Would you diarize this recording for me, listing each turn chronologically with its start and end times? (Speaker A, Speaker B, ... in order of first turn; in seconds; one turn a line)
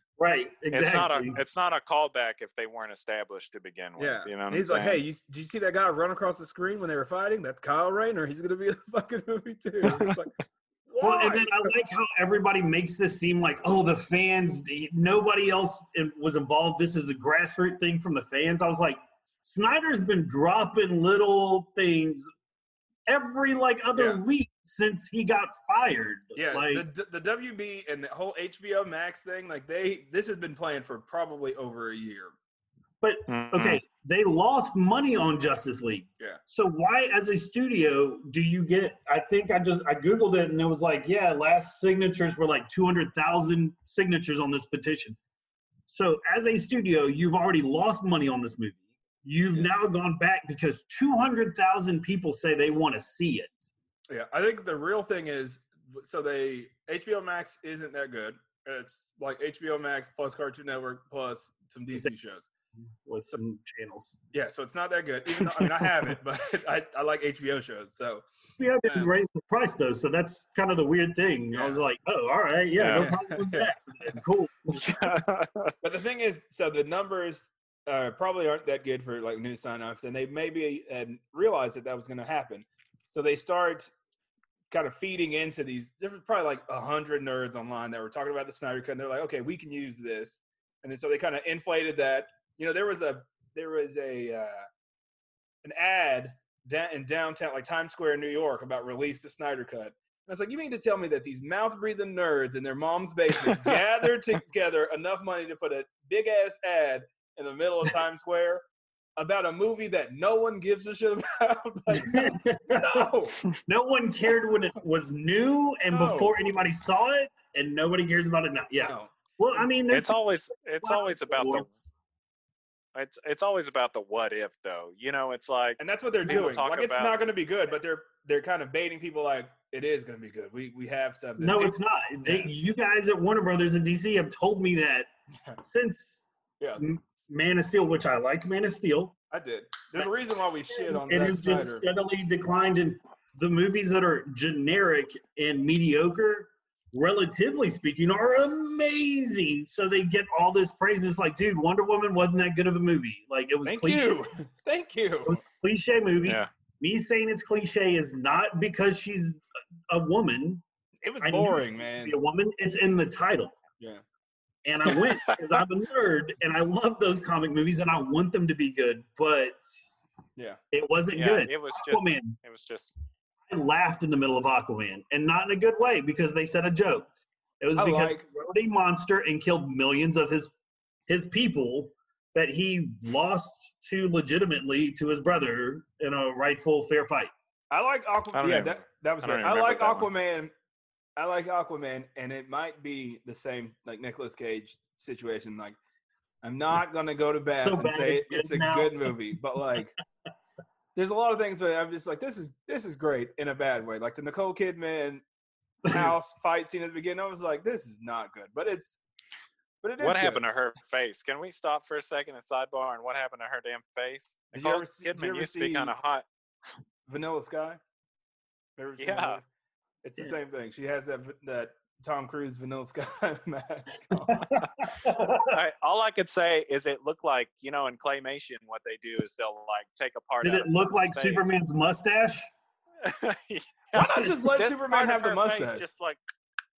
Speaker A: 0.2-1.4
Speaker B: 0.7-5.0
Speaker C: 4.0-10.3
Speaker B: 9.8-10.2
Speaker C: 10.9-11.7
Speaker A: 11.0-22.3
Speaker A: 23.1-26.9
Speaker C: 26.3-32.4
Speaker A: 33.0-45.2
Speaker B: 33.3-33.8
Speaker A: 45.9-53.7
Speaker C: 54.1-62.5
Speaker A: 63.0-64.1
Speaker C: 64.3-68.2
Speaker A: 68.6-75.0
Speaker C: 68.8-69.1
Speaker C: 71.5-71.8
Speaker B: 72.8-73.1
Speaker C: 72.9-73.7
Speaker B: 74.8-75.7
Speaker C: 75.8-83.9
Speaker C: 84.7-94.7
Speaker C: 95.6-108.6
Speaker B: 103.4-103.8
Speaker C: 109.2-113.4
Speaker A: 111.9-113.1
Speaker A: 113.6-120.2
Speaker C: 115.9-116.3
Speaker C: 118.8-119.1
Speaker B: 119.9-121.7
Speaker A: 120.8-121.8
Speaker B: 122.9-127.2
Speaker C: 125.8-132.5
Speaker A: 131.4-136.2
Speaker A: 136.8-139.1
Speaker C: 139.3-141.8
Speaker A: 140.7-154.3
Speaker C: 153.6-155.4
Speaker A: 155.2-160.6
Speaker C: 161.0-162.2
Speaker A: 161.2-163.6
Speaker A: 164.6-169.8
Speaker B: 164.9-165.3
Speaker A: 170.7-172.4
Speaker B: 171.1-172.9
Speaker A: 173.5-180.5
Speaker C: 177.8-178.2
Speaker A: 181.1-187.3
Speaker C: 187.7-190.5
Speaker B: 188.3-190.1
Speaker C: 191.2-195.8
Speaker C: 196.4-199.9
Speaker A: 197.6-199.4
Speaker C: 200.9-205.2
Speaker C: 205.8-209.0
Speaker C: 209.8-210.4
Speaker B: 210.0-216.3
Speaker C: 214.5-215.9
Speaker C: 217.1-217.8
Speaker C: 218.8-219.4
Speaker B: 219.0-219.4
Speaker C: 220.0-224.6
Speaker A: 224.3-225.6
Speaker B: 225.4-231.5
Speaker A: 230.4-232.5
Speaker B: 233.0-236.2
Speaker C: 233.9-235.8